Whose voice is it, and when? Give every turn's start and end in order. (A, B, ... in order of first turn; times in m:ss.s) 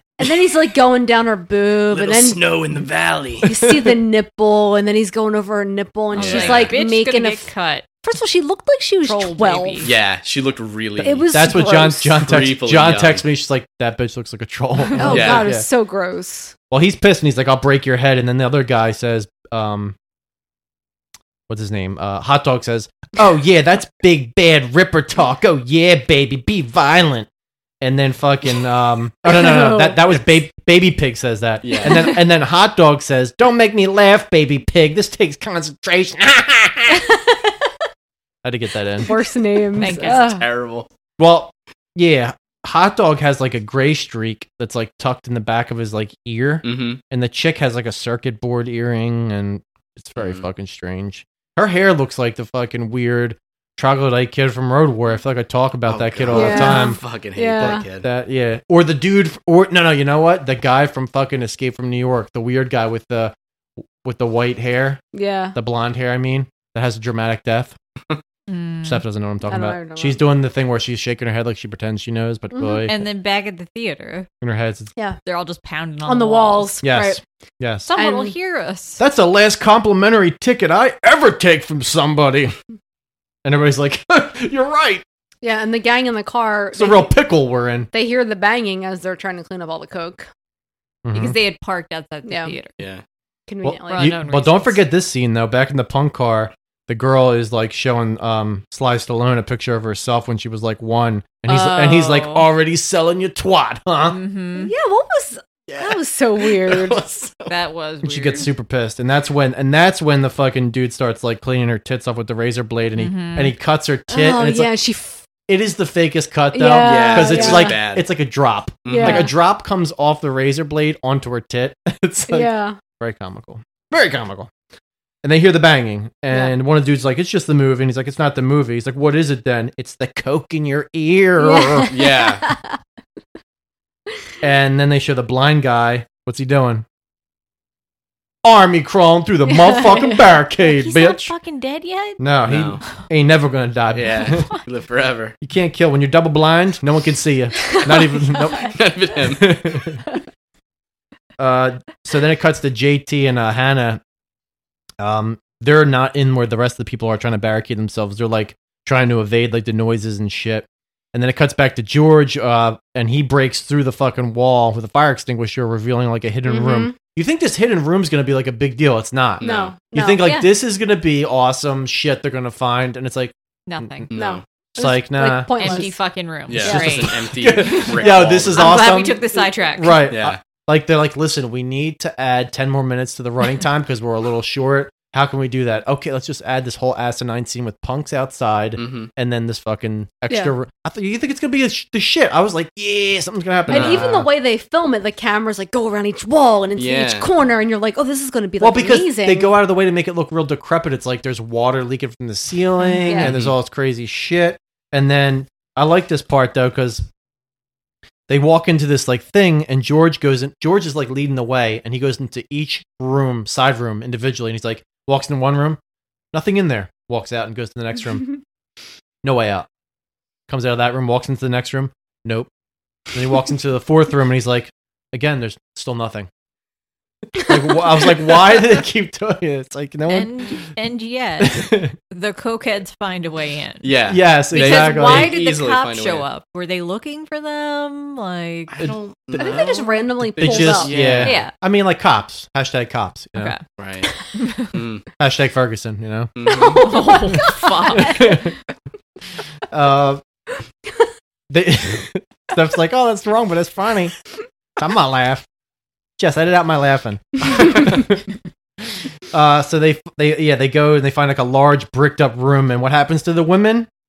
0:00.2-0:02.4 A
0:01.9-0:03.5 B
0:03.4-0:07.5 A
0:06.1-0:07.9 C
0:06.2-0:06.8 B
0:08.0-0:09.9 A
0:09.0-0:09.9 C
0:09.8-0:11.3 B
0:11.0-0:12.2 A
0:11.3-0:15.7 D
0:12.2-0:13.2 B
0:14.9-0:16.5 A
0:15.0-0:15.5 B
0:16.7-0:20.0 D
0:21.5-0:27.3 D
0:27.8-0:37.0 D
0:29.3-0:30.0 A
0:31.6-0:32.2 B
0:38.4-0:39.1 D
0:39.0-0:40.4 A
0:39.8-0:40.4 C
0:40.0-0:40.9 B
0:41.2-0:57.0 D
0:46.6-0:47.0 B
0:50.2-0:50.4 B
0:55.9-0:58.1 B
0:56.3-0:57.8 A
0:57.6-1:03.3 D
1:04.0-1:05.0 D
1:05.1-1:05.6 A
1:05.5-1:07.8 D
1:08.5-1:09.0 C
1:08.8-1:13.0 D
1:09.5-1:10.2 A
1:12.5-1:12.8 A
1:12.9-1:14.3 C
1:14.4-1:14.9 D
1:15.2-1:16.8 C
1:16.0-1:17.2 A
1:16.8-1:17.9 D
1:17.9-1:19.0 C
1:18.0-1:18.3 A
1:19.0-1:22.6 D
1:23.4-1:25.0 D
1:25.4-1:27.1 A
1:26.8-1:27.9 D
1:27.9-1:30.3 A
1:31.0-1:31.4 D
1:31.1-1:32.8 C
1:32.2-1:32.6 A
1:33.5-1:34.1 A
1:33.6-1:44.2 D
1:33.9-1:34.8 C
1:41.5-1:42.5 C
1:44.1-1:44.7 C
1:44.6-1:47.0 A
1:45.7-1:47.5 B
1:47.5-1:48.5 C
1:48.0-1:54.7 D
1:53.0-1:53.6 C
1:54.1-1:55.2 A
1:55.5-2:04.5 D
1:56.5-1:57.8 A
1:56.8-1:58.1 B
1:58.8-1:59.3 B
1:58.9-1:59.3 A
2:02.3-2:02.8 A
2:05.2-2:11.9 D
2:11.4-2:12.8 A
2:11.9-2:12.4 B
2:14.4-2:16.8 D
2:18.4-2:21.3 D
2:19.5-2:20.2 A
2:20.6-2:22.2 C
2:22.2-2:24.5 D
2:22.5-2:22.8 B
2:23.9-2:25.4 B
2:24.3-2:24.6 C
2:25.4-2:30.0 D
2:27.8-2:28.7 A
2:28.7-2:29.5 B
2:31.4-2:34.0 D
2:35.0-2:54.1 D
2:46.5-2:47.0 A
2:49.4-2:49.7 B
2:49.4-2:50.3 A
2:50.2-2:50.5 C
2:53.7-2:54.1 C
2:54.1-2:54.4 B
2:54.1-2:55.9 A
2:54.8-2:55.9 D
2:55.5-3:00.1 C
2:56.5-2:58.9 B
2:56.6-2:56.9 A
2:56.6-3:14.3 D
3:00.1-3:00.4 B
3:08.8-3:09.1 B
3:10.3-3:10.6 A
3:13.7-3:19.5 A
3:13.7-3:14.0 B
3:16.8-3:17.3 B
3:18.6-3:27.1 D
3:23.1-3:23.3 A
3:23.2-3:23.6 B
3:28.3-3:35.8 D
3:36.3-3:38.4 D
3:39.2-3:39.7 D
3:40.5-3:42.5 D
3:43.1-3:46.3 D
3:47.4-3:50.3 D
3:50.1-3:54.0 C
3:51.4-3:51.9 D
3:53.8-3:56.3 B
3:54.1-3:55.4 D
3:54.5-3:58.8 C
3:58.7-4:01.4 B
3:59.3-4:00.9 A
4:00.4-4:03.6 D
4:01.2-4:01.5 C
4:03.4-4:03.6 C
4:03.8-4:04.1 B
4:04.4-4:04.7 C
4:04.7-4:05.0 B
4:05.2-4:06.3 D
4:06.4-4:06.8 B
4:06.5-4:08.4 A
4:06.7-4:08.3 C
4:07.4-4:08.5 D
4:09.7-4:10.2 D
4:11.5-4:14.2 D
4:14.8-4:15.5 D
4:16.2-4:18.2 D
4:19.3-4:23.9 D